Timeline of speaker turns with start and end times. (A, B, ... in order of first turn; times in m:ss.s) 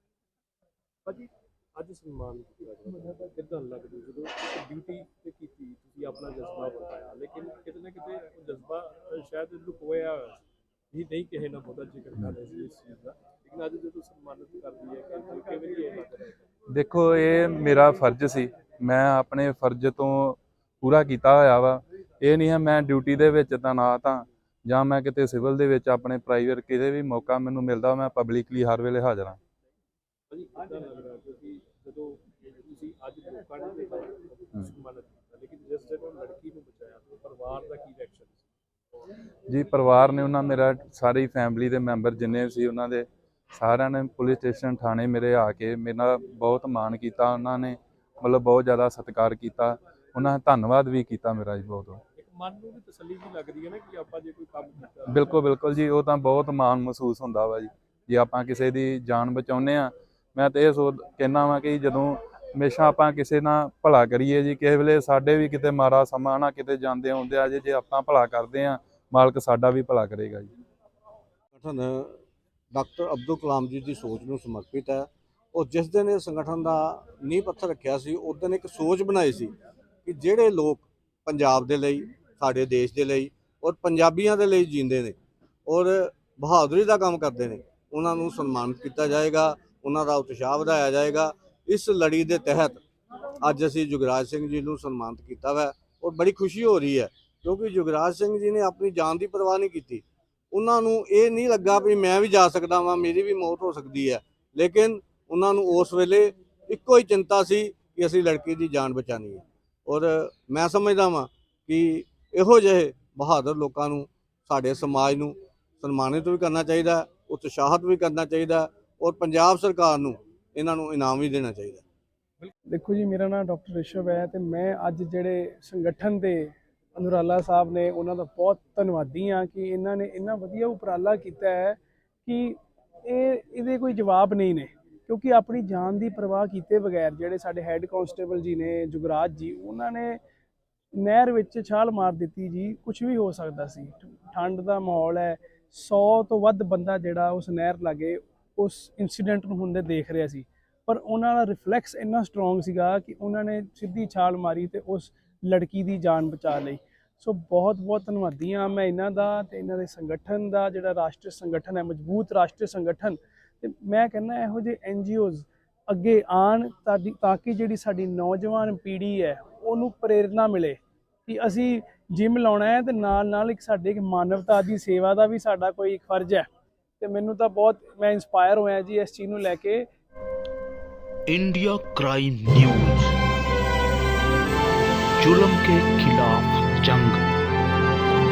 0:01.1-0:10.4 A
0:10.9-0:16.4 A
0:16.7-0:29.4 B
0:30.3-0:38.4 A
0:39.5-0:52.0 B
0:52.2-0:55.4 A
0:55.1-1:10.5 B
1:11.6-1:12.2 C
1:12.7-1:19.5 C
1:20.0-1:32.8 C
1:33.4-2:01.8 C
2:02.7-2:20.2 D
2:21.0-2:56.5 D
2:57.0-2:59.9 D
3:01.3-3:03.2 E
3:05.2-3:07.2 E